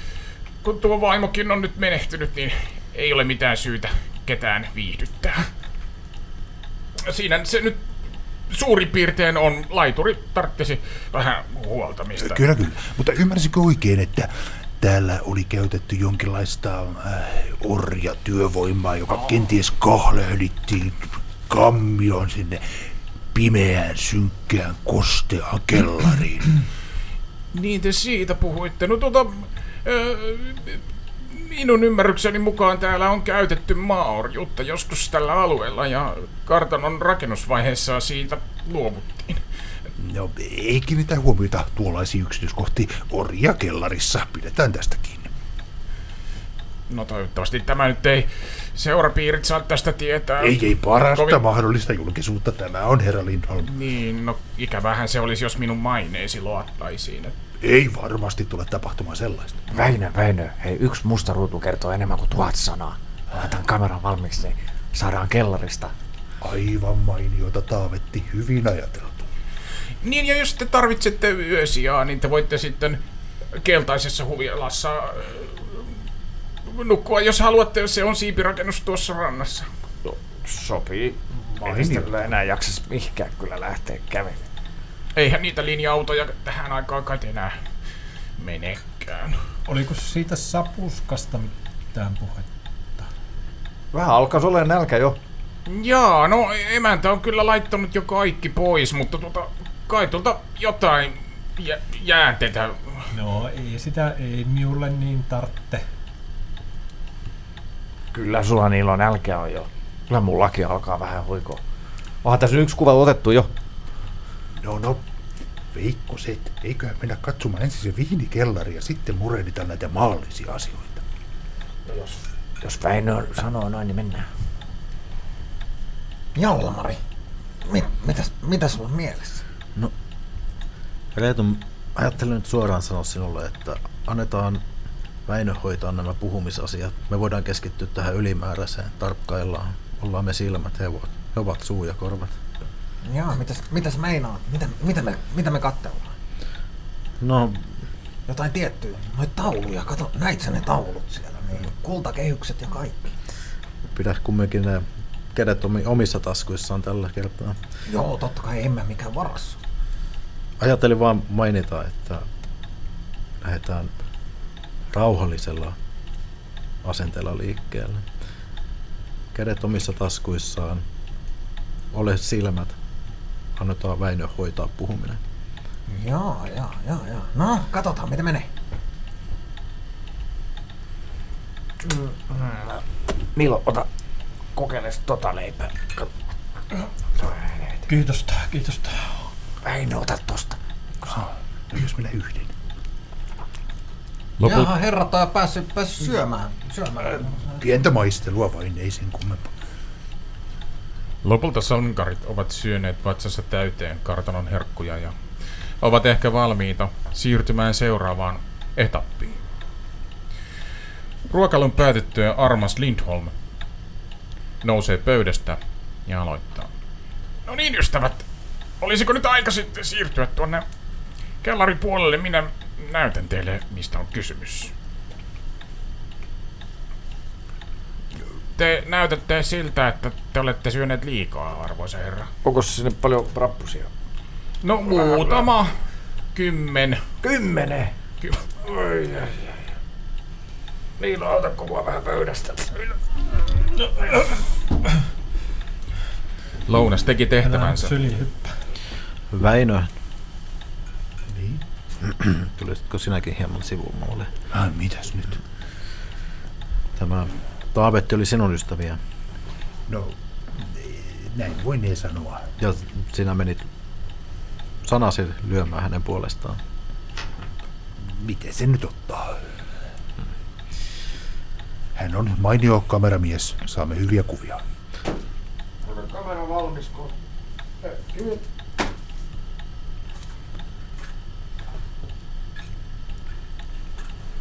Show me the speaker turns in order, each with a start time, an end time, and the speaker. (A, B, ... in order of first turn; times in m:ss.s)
0:00.6-0:05.5 A
0:07.0-0:07.8 A
0:08.5-0:12.4 A
0:12.2-0:26.6 B
0:27.5-0:39.4 A
0:40.0-0:45.3 B
0:46.9-0:51.4 A
0:50.4-0:53.7 B
0:53.6-0:57.3 A
0:57.6-0:59.6 B
0:59.7-1:05.9 C
1:06.4-1:09.3 B
1:10.0-1:13.0 A
1:13.6-1:16.0 A
1:16.6-1:19.7 A
1:20.0-1:24.4 C
1:21.6-1:22.1 B
1:25.1-1:27.6 A
1:28.4-1:29.4 A
1:29.6-1:33.1 D
1:33.9-1:35.2 C
1:35.6-1:43.1 A
1:43.1-1:45.8 D
1:48.1-1:51.6 C
1:52.2-1:53.5 C
1:54.6-1:55.0 B
1:55.7-2:01.0 B
2:01.9-2:04.3 C
2:06.3-2:07.0 E
2:07.6-2:09.4 E
2:11.1-2:14.6 F
2:15.2-2:22.4 F
2:23.0-2:26.1 E
2:27.2-2:27.7 F
2:28.3-2:33.1 E
2:33.9-2:37.6 F
2:37.9-2:39.6 E
2:40.6-2:42.3 F
2:43.4-2:43.9 F
2:44.9-2:45.8 F
2:46.8-2:48.0 F
2:49.3-2:50.8 F
2:51.9-2:52.8 F
2:53.6-2:55.2 F
2:55.9-2:58.5 E
3:01.8-3:02.8 C
3:03.3-3:03.9 C
3:04.5-3:06.1 C
3:07.2-3:07.8 C
3:07.9-3:09.3 D
3:09.6-3:10.6 C
3:11.0-3:12.5 B
3:14.4-3:14.7 A
3:14.4-3:17.6 E
3:17.6-3:19.5 B
3:21.2-3:25.1 A
3:25.8-3:29.4 A
3:31.3-3:33.3 A
3:34.6-3:36.7 A
3:37.4-3:38.2 A
3:38.8-3:40.6 A
3:41.4-3:44.7 A
3:48.5-3:52.3 A
3:52.4-3:53.9 C
3:54.6-3:55.7 A
3:54.9-3:55.5 C
3:56.3-3:57.0 A
3:57.2-3:57.9 C
3:58.6-3:59.7 C
4:01.0-4:03.0 C
4:03.8-4:04.2 C
4:06.6-4:08.0 A
4:07.4-4:08.5 D
4:09.3-4:09.9 F
4:11.3-4:11.6 B
4:12.0-4:14.3 F
4:14.5-4:15.4 B
4:17.0-4:19.0 F
4:19.9-4:22.5 B
4:22.6-4:23.6 F
4:24.8-4:26.6 F
4:28.0-4:29.4 B
4:32.0-4:34.6 B
4:35.8-4:37.1 C
4:37.8-4:38.4 C